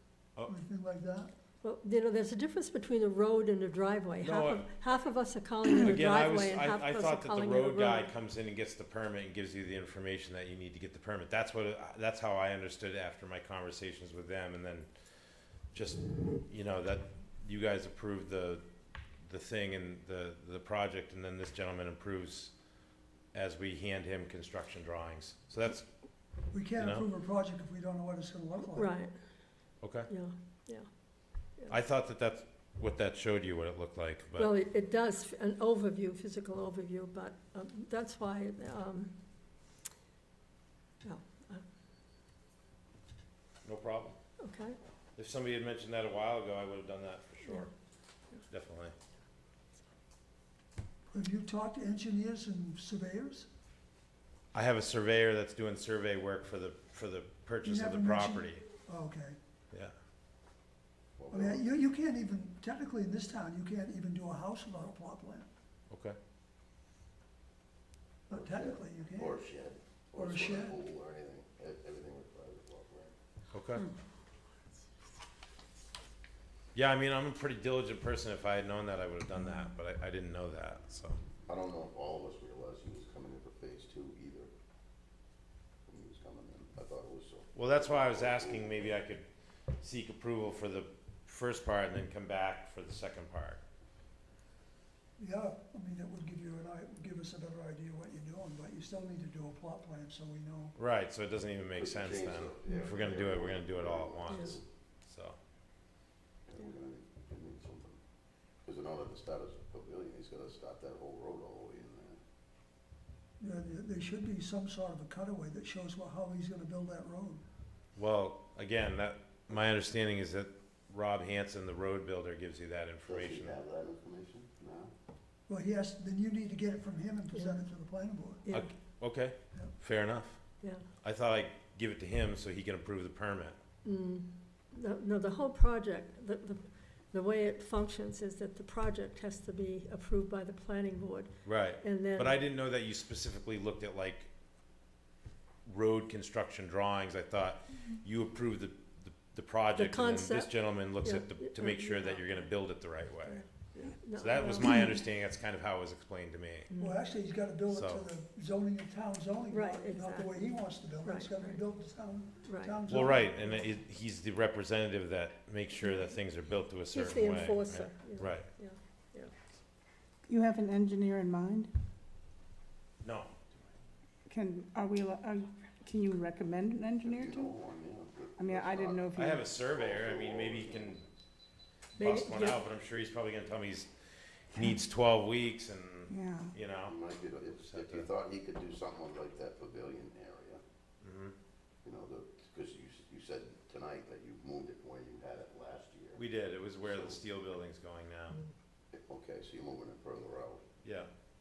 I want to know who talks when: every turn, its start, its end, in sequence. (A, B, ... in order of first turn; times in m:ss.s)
0:00.4-0:01.3 A
0:01.6-0:08.0 B
0:04.2-0:05.0 C
0:05.6-0:14.9 C
0:15.7-0:18.6 C
0:19.2-0:22.5 C
0:23.3-0:25.9 C
0:26.5-0:28.9 A
0:26.8-0:27.0 C
0:28.8-0:29.2 B
0:29.8-0:30.1 C
0:30.1-0:30.9 B
0:31.7-0:34.5 C
0:34.4-0:39.2 B
0:41.0-0:41.6 B
0:43.6-0:44.2 C
0:44.4-0:44.8 B
0:45.2-0:47.7 C
0:48.5-0:48.9 C
0:51.1-0:53.5 A
0:54.5-0:58.6 C
0:57.6-0:59.4 A
1:01.2-1:01.6 D
1:01.3-1:05.5 A
1:05.9-1:06.2 C
1:08.3-1:09.4 A
1:08.3-1:13.1 D
1:10.2-1:10.8 A
1:13.5-1:13.8 C
1:16.7-1:21.2 C
1:21.5-1:24.5 D
1:25.9-1:29.0 D
1:27.5-1:29.2 C
1:29.8-1:33.6 C
1:35.2-1:40.8 A
1:40.8-1:45.4 C
1:41.8-1:44.6 D
1:46.5-1:48.0 D
1:48.6-1:52.2 D
1:53.4-1:57.4 A
1:58.0-2:03.6 C
2:03.0-2:04.9 D
2:05.5-2:08.4 A
2:08.5-2:13.6 C
2:13.8-2:22.3 B
2:21.4-2:24.3 C
2:25.6-2:36.7 C
2:29.7-2:32.1 B
2:33.2-2:34.9 B
2:36.8-2:43.7 A
2:37.7-2:38.1 C
2:39.5-2:40.3 B
2:41.0-2:41.6 B
2:42.5-2:42.8 B
2:42.9-2:48.5 C
2:46.9-2:49.3 B
2:50.3-2:51.7 E
2:53.0-2:53.3 C
2:54.3-2:57.6 E
2:57.0-3:01.0 D
2:58.4-2:59.5 E
2:59.2-3:01.0 C
3:01.9-3:03.9 C
3:02.0-3:02.6 B
3:04.5-3:07.0 C
3:06.1-3:06.6 E
3:06.8-3:10.6 D
3:07.6-3:08.1 C
3:11.0-3:11.3 C
3:11.8-3:16.2 D
3:16.2-3:18.4 C
3:16.8-3:17.2 D
3:18.9-3:20.7 D
3:20.8-3:21.1 C